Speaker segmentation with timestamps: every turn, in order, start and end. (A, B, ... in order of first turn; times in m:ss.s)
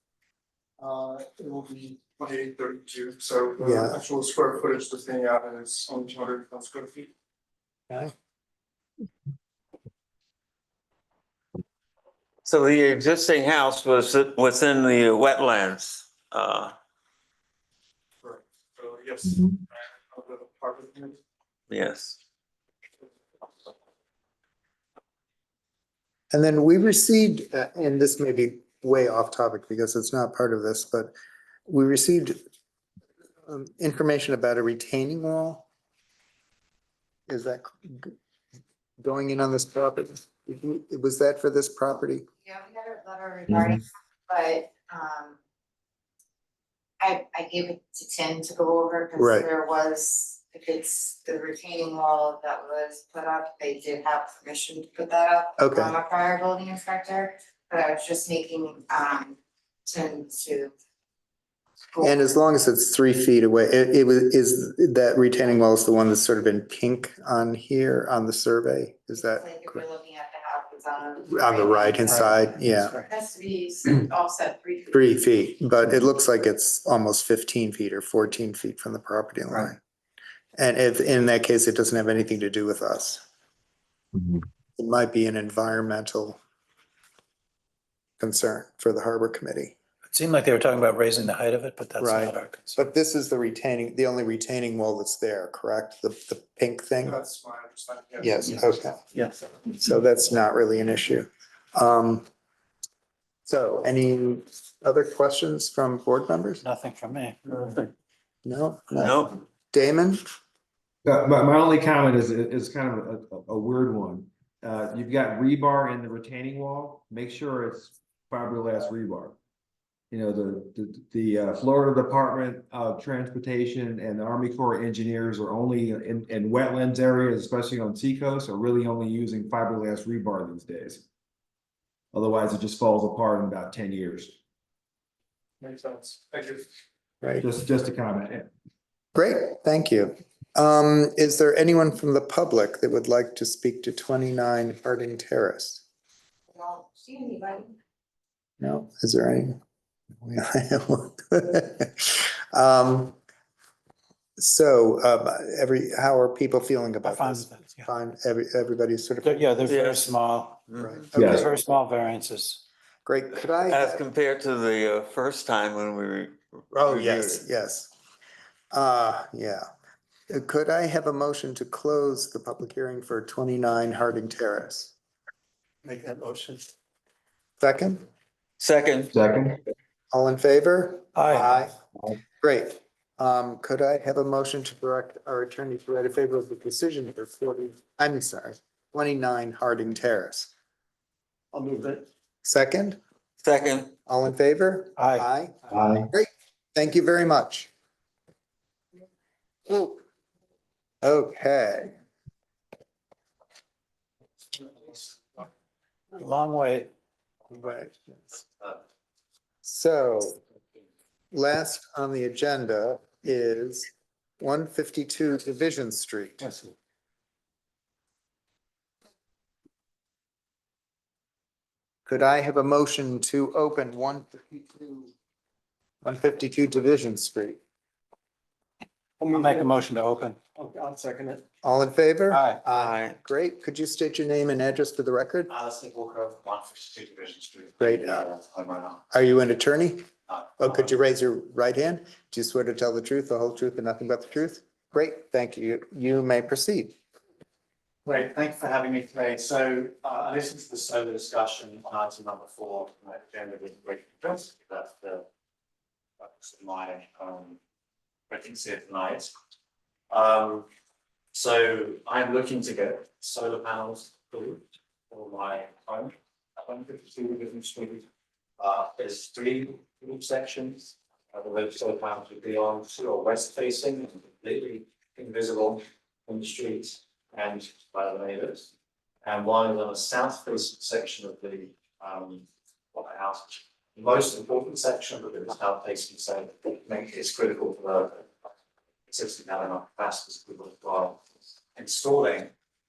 0:00.8-0:07.1 A
0:03.6-0:04.0 B
0:12.4-0:16.7 C
0:18.2-0:21.2 A
0:21.7-0:22.2 C
0:26.3-0:31.1 B
0:31.7-0:32.4 B
0:33.5-0:35.6 B
0:37.3-0:38.1 B
0:39.0-0:42.2 B
0:42.4-0:45.4 D
0:47.0-1:00.7 D
0:49.2-0:49.5 B
0:55.6-0:55.9 B
1:01.9-1:02.2 D
1:02.0-1:09.8 B
1:09.2-1:15.2 D
1:11.3-1:13.0 B
1:12.0-1:13.1 E
1:14.9-1:19.8 B
1:20.6-1:23.2 B
1:24.8-1:26.4 B
1:28.2-1:29.7 B
1:30.1-1:32.8 E
1:32.0-1:37.2 B
1:37.0-1:38.7 A
1:38.2-1:39.0 B
1:39.8-1:42.2 B
1:43.5-1:46.6 B
1:46.6-1:47.8 E
1:48.4-1:50.2 B
1:49.0-1:49.3 C
1:51.0-1:59.4 F
2:00.1-2:11.0 F
2:12.1-2:14.3 F
2:15.6-2:16.6 A
2:17.4-2:18.5 F
2:19.1-2:25.8 B
2:26.5-2:27.8 D
2:28.6-2:29.6 B
2:30.2-2:33.2 B
2:34.4-2:39.8 B
2:37.0-2:37.9 E
2:39.2-2:42.6 E
2:39.6-2:40.1 C
2:40.7-2:41.0 C
2:40.8-2:41.6 B
2:41.1-2:41.5 F
2:43.0-2:44.0 B
2:43.7-2:47.4 C
2:46.7-2:47.9 B
2:48.7-2:49.6 B
2:50.3-2:54.9 B
2:55.8-2:56.6 A
2:57.6-2:58.0 B
2:58.6-2:59.1 C
2:59.1-2:59.6 F
3:00.1-3:01.8 B
3:01.1-3:01.6 E
3:02.4-3:10.5 B
3:11.6-3:11.9 A
3:12.4-3:13.0 B
3:13.4-3:13.9 C
3:14.1-3:17.7 B
3:15.0-3:15.3 E
3:19.7-3:20.0 B
3:21.0-3:21.9 B
3:26.2-3:26.9 E
3:27.5-3:28.0 B
3:29.6-3:30.4 B
3:31.3-3:33.9 B
3:34.4-3:36.5 B
3:42.0-3:45.1 B
3:46.0-3:47.6 B
3:49.2-3:49.7 A
3:49.3-3:50.4 E
3:50.6-3:51.4 A
3:51.6-3:55.5 B
3:52.3-3:52.6 E
3:52.7-3:53.2 C
3:55.5-3:59.0 G
3:57.8-3:58.2 B
3:59.1-4:00.0 B
4:00.3-4:00.9 G
4:00.6-4:07.0 B
4:08.0-4:15.2 G
4:16.2-4:17.6 G
4:18.3-4:19.3 G
4:20.1-4:20.7 G
4:21.3-4:28.0 G
4:28.6-4:38.7 G
4:39.2-4:48.3 G
4:49.1-4:51.2 G
4:51.7-4:52.5 G